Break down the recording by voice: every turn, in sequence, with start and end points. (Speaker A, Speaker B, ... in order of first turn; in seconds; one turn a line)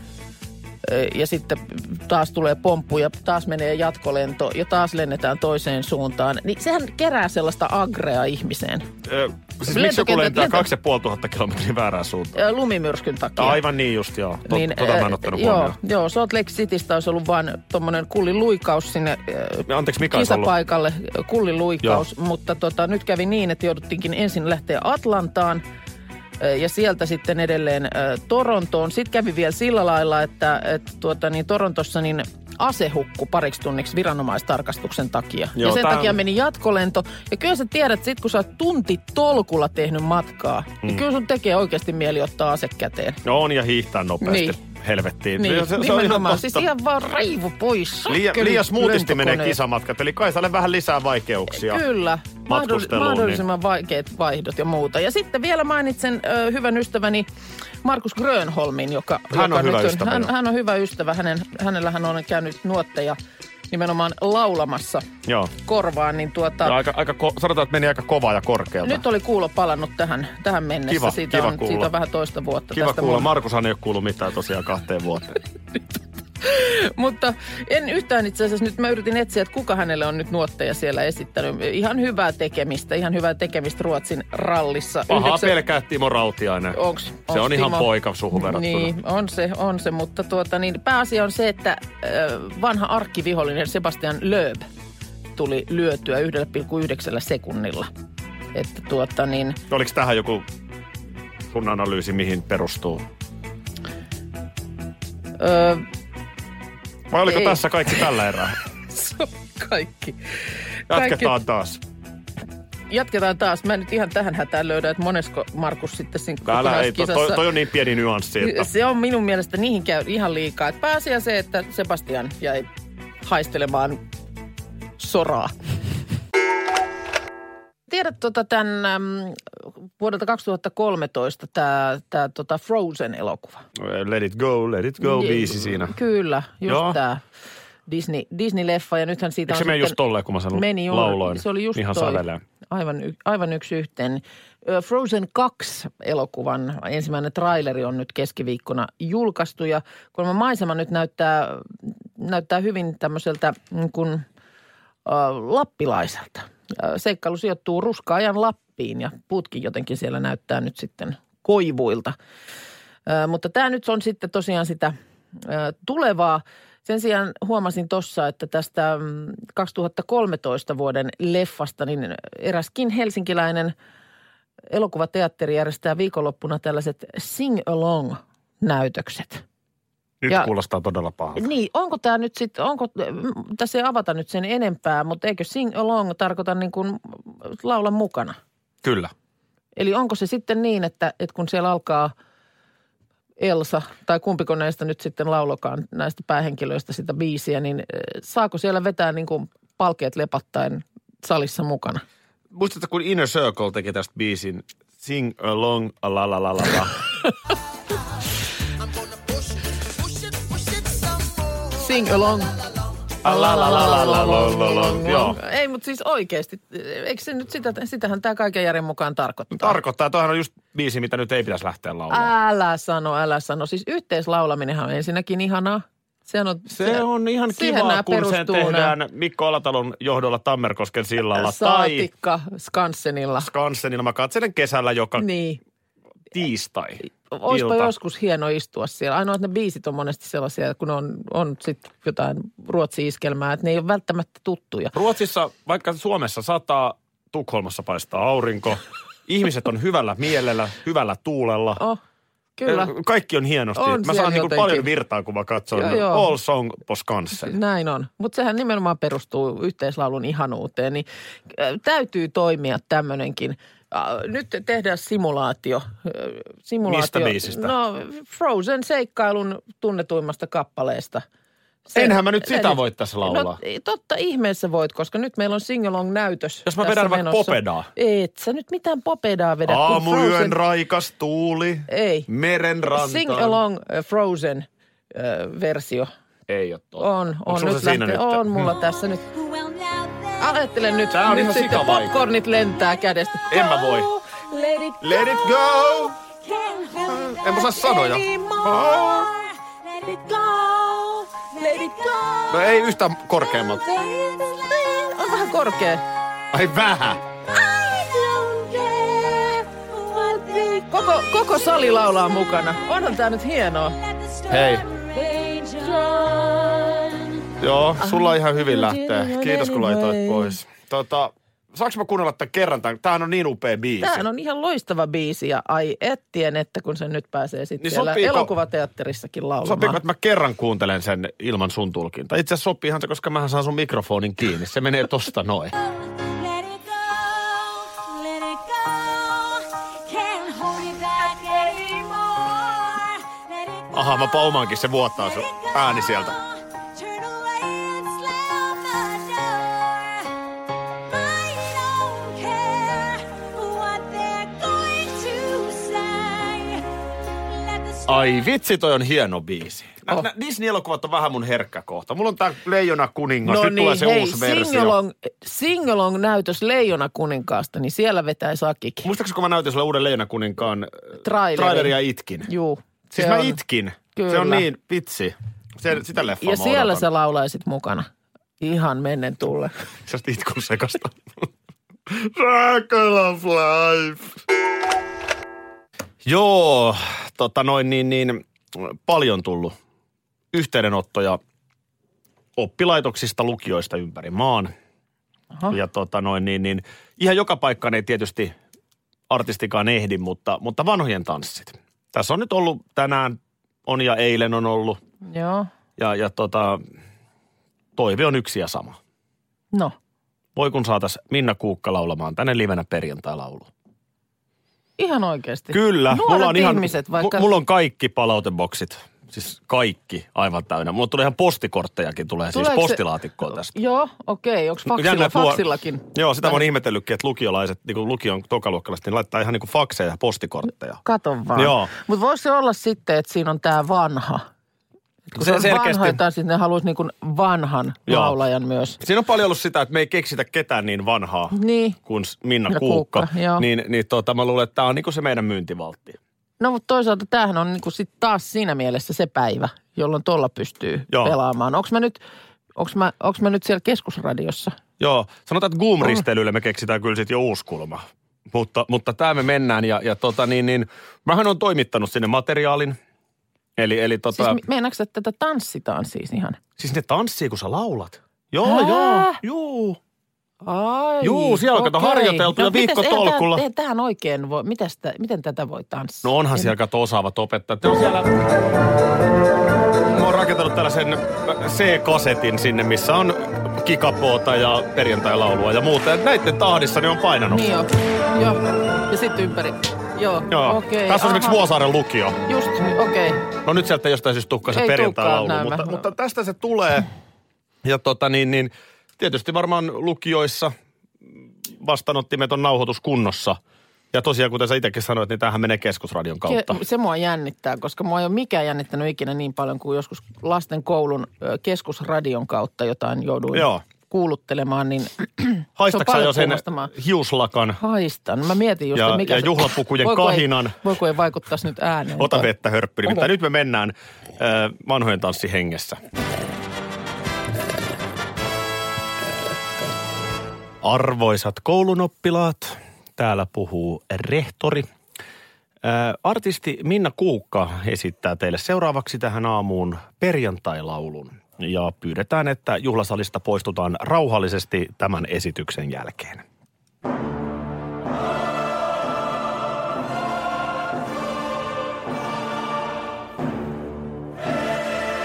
Speaker A: 0.8-8.9
Speaker B: 9.0-12.4
Speaker A: 9.7-10.7
Speaker A: 12.3-13.6
Speaker B: 13.4-15.8
Speaker A: 14.5-25.6
Speaker B: 19.7-20.5
Speaker A: 26.4-43.2
Speaker B: 35.5-36.2
Speaker B: 43.2-46.7
Speaker A: 44.2-44.6
Speaker A: 45.4-49.6
Speaker B: 48.1-51.8
Speaker A: 51.5-57.3
Speaker B: 52.5-53.4
Speaker A: 57.8-63.2
Speaker B: 59.3-60.3
Speaker A: 63.7-65.1
Speaker B: 65.2-65.5
Speaker A: 65.6-66.8
Speaker B: 66.6-69.0
Speaker A: 68.8-73.3
Speaker B: 70.9-71.9
Speaker B: 72.7-75.4
Speaker A: 76.4-85.6
Speaker B: 85.1-86.8
Speaker A: 86.7-94.7
Speaker B: 87.3-88.9
Speaker A: 95.3-97.9
Speaker A: 98.5-99.6
Speaker B: 99.7-100.5
Speaker B: 101.5-103.0
Speaker A: 105.4-105.8
Speaker B: 107.1-108.6
Speaker A: 107.2-107.6
Speaker A: 108.9-110.2
Speaker A: 110.9-111.3
Speaker B: 110.9-111.8
Speaker A: 112.9-117.5
Speaker B: 116.4-118.7
Speaker A: 118.4-122.7
Speaker A: 123.2-124.0
Speaker A: 125.0-125.5
Speaker A: 127.9-133.6
Speaker B: 133.8-135.9
Speaker A: 135.0-137.2
Speaker B: 136.7-137.0
Speaker A: 137.9-140.0
Speaker B: 139.5-142.4
Speaker A: 140.5-154.2
Speaker A: 155.1-162.2
Speaker A: 163.1-173.7
Speaker A: 174.7-179.4
Speaker B: 180.2-181.5
Speaker A: 181.3-188.4
Speaker B: 188.8-189.1
Speaker A: 189.8-192.1
Speaker A: 193.4-202.0
Speaker B: 202.5-207.0
Speaker A: 211.7-212.5
Speaker B: 213.2-215.4
Speaker A: 213.2-219.8
Speaker B: 219.5-222.3
Speaker A: 222.1-228.9
Speaker B: 226.7-232.1
Speaker A: 231.3-233.5
Speaker B: 233.4-235.3
Speaker A: 235.2-235.6
Speaker B: 236.3-237.9
Speaker A: 237.3-244.9
Speaker B: 244.9-251.8
Speaker A: 252.6-252.9
Speaker B: 252.7-257.6
Speaker A: 253.7-254.9
Speaker A: 255.7-256.3
Speaker A: 257.3-271.2
Speaker B: 266.9-267.7
Speaker A: 271.9-280.6
Speaker B: 271.9-273.6
Speaker B: 276.6-277.9
Speaker B: 279.6-283.6
Speaker A: 281.9-282.3
Speaker A: 282.9-286.1
Speaker B: 286.5-288.6
Speaker A: 287.0-289.2
Speaker C: 288.7-290.6
Speaker A: 290.4-295.3
Speaker B: 291.1-292.1
Speaker C: 292.6-293.0
Speaker B: 293.5-294.1
Speaker B: 295.0-296.1
Speaker C: 296.2-302.8
Speaker B: 297.0-299.3
Speaker A: 301.6-302.1
Speaker B: 302.5-303.8
Speaker C: 303.8-305.3
Speaker A: 304.8-306.0
Speaker B: 306.5-307.2
Speaker C: 307.5-312.4
Speaker A: 310.5-313.9
Speaker C: 314.0-317.5
Speaker B: 314.5-314.9
Speaker A: 315.8-316.2
Speaker B: 317.6-324.2
Speaker A: 318.0-320.6
Speaker A: 324.0-330.0
Speaker B: 327.8-328.5
Speaker B: 329.6-335.7
Speaker C: 335.9-344.4
Speaker B: 343.9-346.4
Speaker C: 345.1-350.3
Speaker C: 351.1-356.9
Speaker C: 357.4-358.5
Speaker B: 358.1-364.9
Speaker A: 363.4-369.1
Speaker B: 369.0-372.5
Speaker A: 371.2-373.6
Speaker B: 373.1-377.1
Speaker A: 374.1-374.7
Speaker A: 376.4-378.1
Speaker A: 378.6-379.7
Speaker B: 380.1-381.5
Speaker B: 382.1-384.4
Speaker B: 386.2-389.7
Speaker B: 390.5-391.4
Speaker B: 392.6-394.7
Speaker B: 395.7-398.5
Speaker B: 399.3-405.0
Speaker A: 405.2-405.7
Speaker B: 406.0-406.8
Speaker B: 407.9-409.0
Speaker B: 410.6-413.7
Speaker A: 415.0-417.5
Speaker B: 415.7-423.7
Speaker A: 422.5-423.0
Speaker A: 423.5-426.6
Speaker B: 424.9-431.0
Speaker A: 431.0-434.4
Speaker B: 431.6-431.9
Speaker A: 435.3-439.0
Speaker B: 435.3-436.2
Speaker B: 438.1-438.4
Speaker B: 439.0-446.2
Speaker A: 441.5-442.0
Speaker A: 442.7-443.6
Speaker A: 446.6-452.2
Speaker B: 451.1-451.3
Speaker A: 452.8-454.8
Speaker B: 455.0-463.0
Speaker B: 463.8-464.6
Speaker A: 464.3-466.6
Speaker B: 466.8-470.0
Speaker A: 468.6-469.4
Speaker A: 470.6-476.7
Speaker B: 471.2-473.6
Speaker B: 476.2-478.4
Speaker B: 480.0-487.7
Speaker A: 487.5-491.6
Speaker B: 490.5-492.4
Speaker A: 492.5-493.4
Speaker B: 493.6-497.1
Speaker A: 494.7-496.0
Speaker B: 497.8-500.7
Speaker B: 501.8-503.6
Speaker B: 504.1-506.8
Speaker A: 506.5-516.9
Speaker B: 513.5-513.8
Speaker B: 515.8-517.8
Speaker A: 517.8-522.5
Speaker B: 518.9-520.8
Speaker B: 522.2-526.0
Speaker B: 530.8-534.9
Speaker B: 535.8-546.4